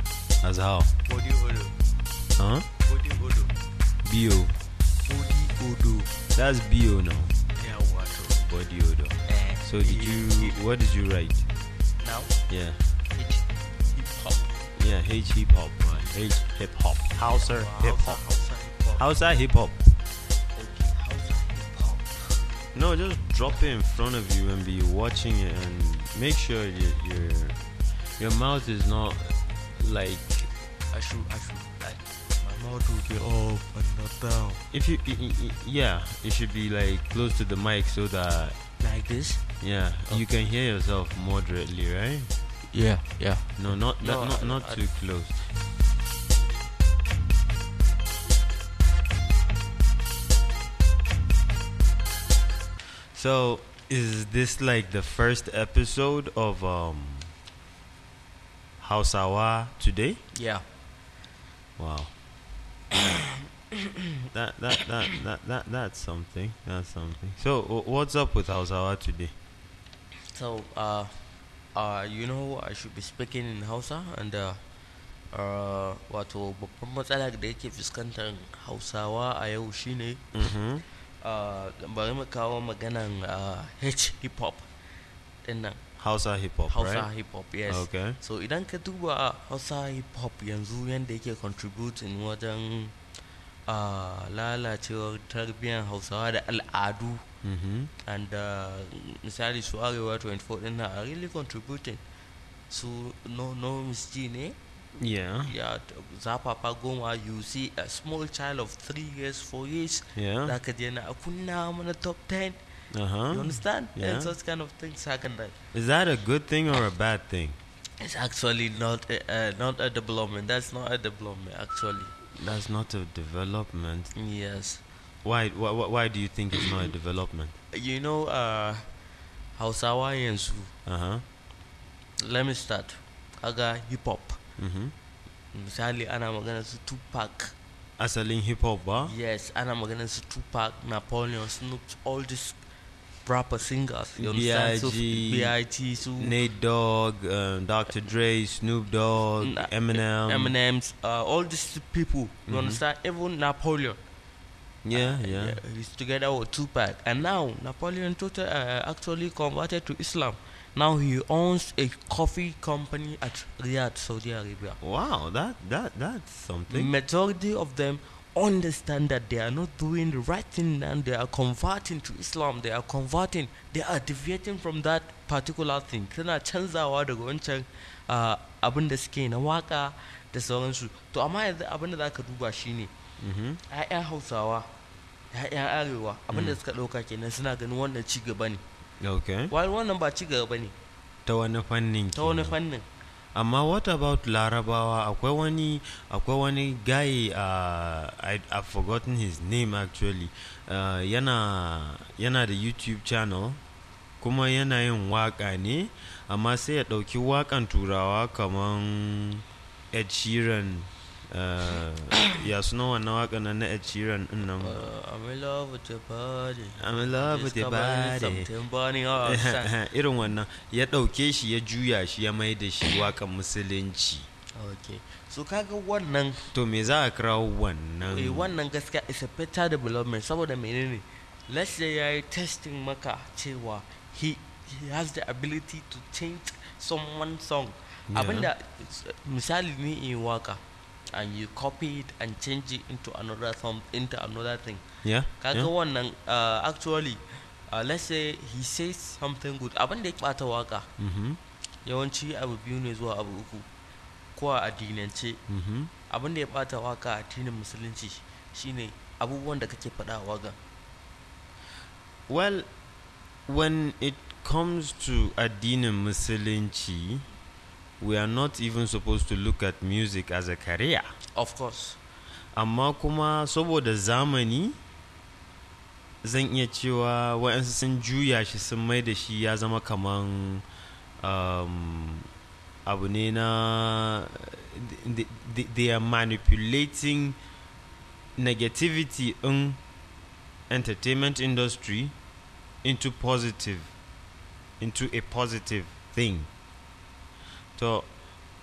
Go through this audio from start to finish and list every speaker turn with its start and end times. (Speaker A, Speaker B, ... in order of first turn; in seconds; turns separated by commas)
Speaker A: 0.4-0.9, Speaker B: 1.1-1.7, Speaker A: 2.4-2.7, Speaker B: 2.8-3.5, Speaker A: 4.0-4.5, Speaker B: 5.0-6.1, Speaker A: 6.3-7.3, Speaker B: 7.5-8.5, Speaker A: 8.5-11.5, Speaker B: 9.2-10.6, Speaker B: 12.0-12.4, Speaker A: 12.5-12.8, Speaker B: 13.1-14.6, Speaker A: 14.8-18.2, Speaker B: 17.2-19.1, Speaker A: 19.0-19.9, Speaker B: 20.6-22.4, Speaker A: 22.8-27.6, Speaker A: 28.2-30.5, Speaker B: 30.9-34.6, Speaker A: 34.7-38.6, Speaker B: 38.8-39.4, Speaker A: 39.6-42.3, Speaker B: 42.7-44.8, Speaker A: 43.6-45.4, Speaker A: 53.1-57.3, Speaker A: 58.8-60.2, Speaker B: 60.3-60.6, Speaker A: 61.8-62.1, Speaker B: 62.9-64.2, Speaker A: 64.3-69.3, Speaker B: 70.3-71.1, Speaker B: 71.8-74.6, Speaker B: 75.3-80.2, Speaker A: 80.3-80.8, Speaker B: 81.2-84.7, Speaker B: 85.5-85.8, Speaker A: 86.0-87.1, Speaker B: 86.7-93.0, Speaker A: 87.7-88.2, Speaker B: 93.7-97.2, Speaker A: 97.4-97.9, Speaker B: 98.0-102.0, Speaker B: 102.7-104.6, Speaker A: 105.0-105.5, Speaker B: 105.5-112.6, Speaker A: 110.2-110.5, Speaker A: 112.9-114.3, Speaker B: 113.3-115.6, Speaker A: 115.7-117.6, Speaker B: 118.0-122.2, Speaker A: 122.3-124.1, Speaker B: 124.2-124.8, Speaker A: 125.2-127.6, Speaker B: 127.7-128.9, Speaker B: 129.6-130.7, Speaker A: 130.9-131.2, Speaker B: 132.2-134.4, Speaker A: 134.6-134.9, Speaker B: 135.5-137.6, Speaker A: 138.0-139.1, Speaker B: 139.0-142.6, Speaker B: 143.2-146.3, Speaker A: 144.2-145.6, Speaker A: 146.1-150.5, Speaker B: 149.4-154.0, Speaker A: 152.5-152.8, Speaker A: 154.8-155.6, Speaker B: 154.9-164.8, Speaker A: 164.8-166.9, Speaker B: 166.7-182.9, Speaker A: 183.2-183.6, Speaker B: 183.7-184.7, Speaker B: 185.3-188.6, Speaker A: 186.3-186.6, Speaker A: 189.0-189.5, Speaker B: 189.5-190.8, Speaker A: 191.3-192.6, Speaker B: 192.1-192.8, Speaker A: 193.3-203.6, Speaker A: 204.2-214.8, Speaker B: 214.6-219.7, Speaker A: 216.8-218.5, Speaker A: 219.2-224.3, Speaker B: 224.6-226.5, Speaker A: 226.5-228.5, Speaker B: 228.0-244.8, Speaker A: 238.1-238.5, Speaker A: 245.0-245.7, Speaker B: 245.4-250.9, Speaker A: 251.0-251.4, Speaker B: 251.8-253.7, Speaker B: 254.4-255.4, Speaker A: 255.5-255.9, Speaker B: 256.1-260.6, Speaker A: 262.3-262.7, Speaker A: 263.5-267.2, Speaker A: 268.0-271.1, Speaker B: 271.4-272.0, Speaker A: 272.6-274.8, Speaker A: 276.2-280.6, Speaker A: 281.2-282.3, Speaker A: 282.9-287.4, Speaker A: 288.4-289.8, Speaker A: 290.7-292.1, Speaker A: 292.8-293.9, Speaker A: 294.8-296.5, Speaker A: 297.8-298.1